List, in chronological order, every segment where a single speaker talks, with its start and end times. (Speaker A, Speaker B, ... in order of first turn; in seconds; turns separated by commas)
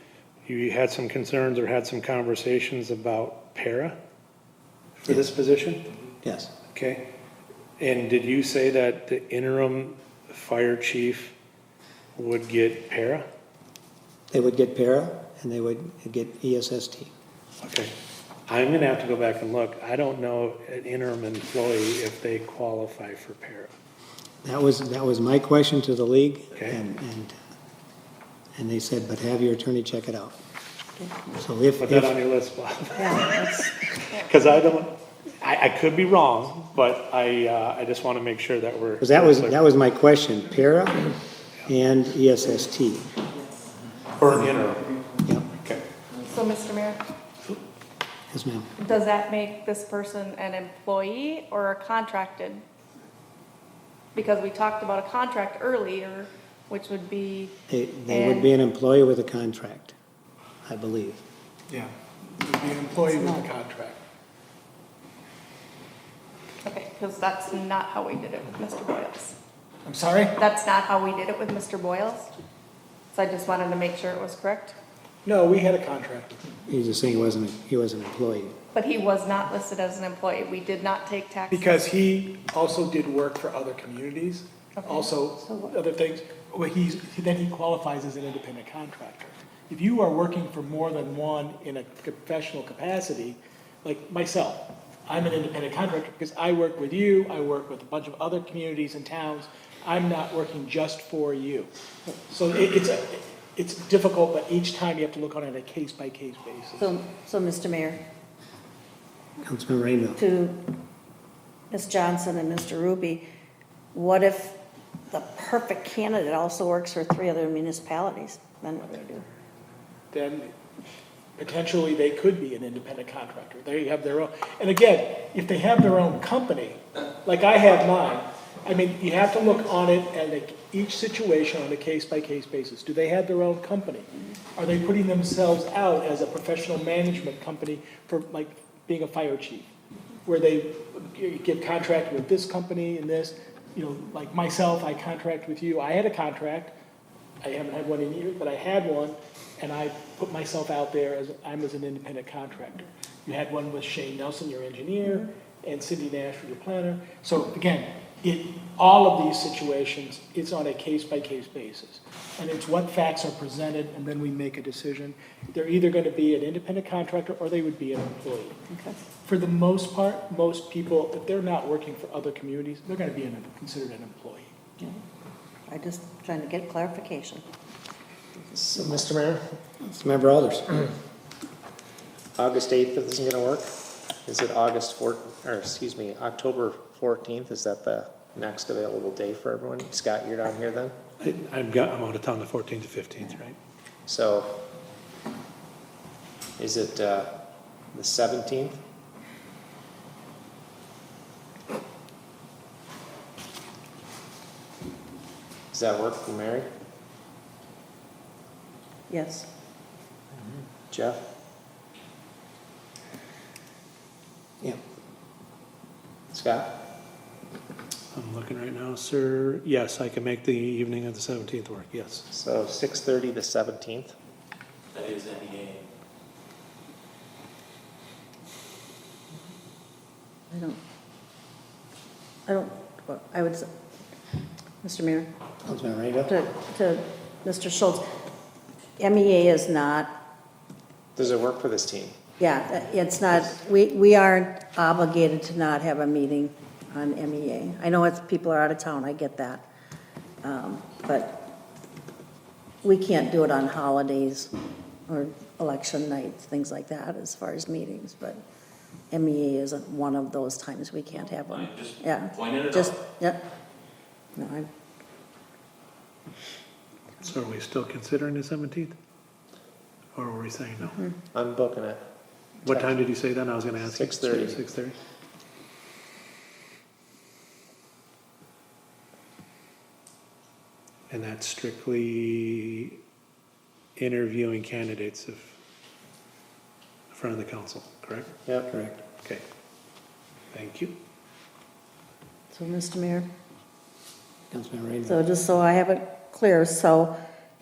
Speaker A: 0.4-4.0, Speaker A: 5.0-5.8, Speaker B: 6.2-6.5, Speaker A: 6.7-7.0, Speaker A: 7.8-11.3, Speaker A: 12.1-13.3, Speaker B: 14.3-17.1, Speaker A: 17.6-17.9, Speaker A: 18.5-23.7, Speaker B: 24.4-27.3, Speaker A: 26.5-26.8, Speaker B: 28.6-30.4, Speaker C: 31.0-31.3, Speaker B: 31.4-32.1, Speaker A: 31.8-39.5, Speaker C: 33.0-33.6, Speaker D: 34.1-34.4, Speaker B: 39.0-41.1, Speaker B: 41.6-43.1, Speaker A: 44.2-45.0, Speaker A: 45.5-45.8, Speaker D: 46.2-47.0, Speaker B: 48.3-48.7, Speaker D: 48.8-52.6, Speaker D: 54.1-57.5, Speaker B: 57.7-59.9, Speaker D: 58.1-58.5, Speaker B: 60.6-61.2, Speaker E: 61.7-64.0, Speaker D: 66.6-69.3, Speaker E: 69.8-70.4, Speaker D: 70.4-72.3, Speaker D: 73.1-74.8, Speaker E: 75.2-76.5, Speaker B: 76.7-78.5, Speaker D: 78.7-81.8, Speaker E: 81.5-101.7, Speaker D: 84.8-85.1, Speaker E: 102.3-107.0, Speaker C: 106.8-108.0, Speaker B: 109.4-110.2, Speaker C: 110.2-110.7, Speaker C: 111.7-113.2, Speaker C: 113.9-114.6, Speaker C: 115.1-119.2, Speaker E: 120.1-120.5, Speaker E: 121.4-139.7, Speaker E: 140.2-146.7, Speaker E: 147.4-168.6, Speaker C: 168.7-169.0, Speaker E: 169.2-174.5, Speaker C: 175.7-177.4, Speaker F: 178.5-179.4, Speaker B: 179.8-180.9, Speaker F: 182.3-190.9, Speaker A: 191.2-193.6, Speaker F: 194.1-194.6, Speaker F: 196.6-197.3, Speaker F: 197.9-198.8, Speaker F: 205.7-206.7, Speaker C: 209.1-209.5, Speaker F: 210.9-211.2, Speaker F: 216.3-216.8, Speaker A: 218.1-222.3, Speaker F: 222.3-224.2, Speaker G: 224.9-225.8, Speaker C: 230.5-230.8, Speaker C: 232.4-233.7, Speaker C: 234.8-235.3, Speaker B: 235.6-236.3, Speaker C: 236.3-238.0, Speaker C: 239.0-240.1, Speaker F: 241.2-242.2, Speaker C: 242.4-249.6, Speaker C: 250.4-251.5, Speaker C: 252.8-254.5, Speaker C: 255.1-258.4, Speaker C: 259.1-263.4, Speaker G: 261.5-262.9, Speaker C: 264.4-264.7, Speaker A: 267.2-268.9, Speaker A: 270.1-271.0, Speaker F: 271.3-272.0, Speaker A: 272.6-274.9, Speaker F: 273.8-274.6, Speaker A: 281.1-283.0, Speaker A: 283.9-285.6, Speaker A: 287.1-289.4, Speaker A: 290.5-290.9, Speaker C: 292.5-293.3, Speaker B: 294.5-295.2, Speaker C: 295.1-297.1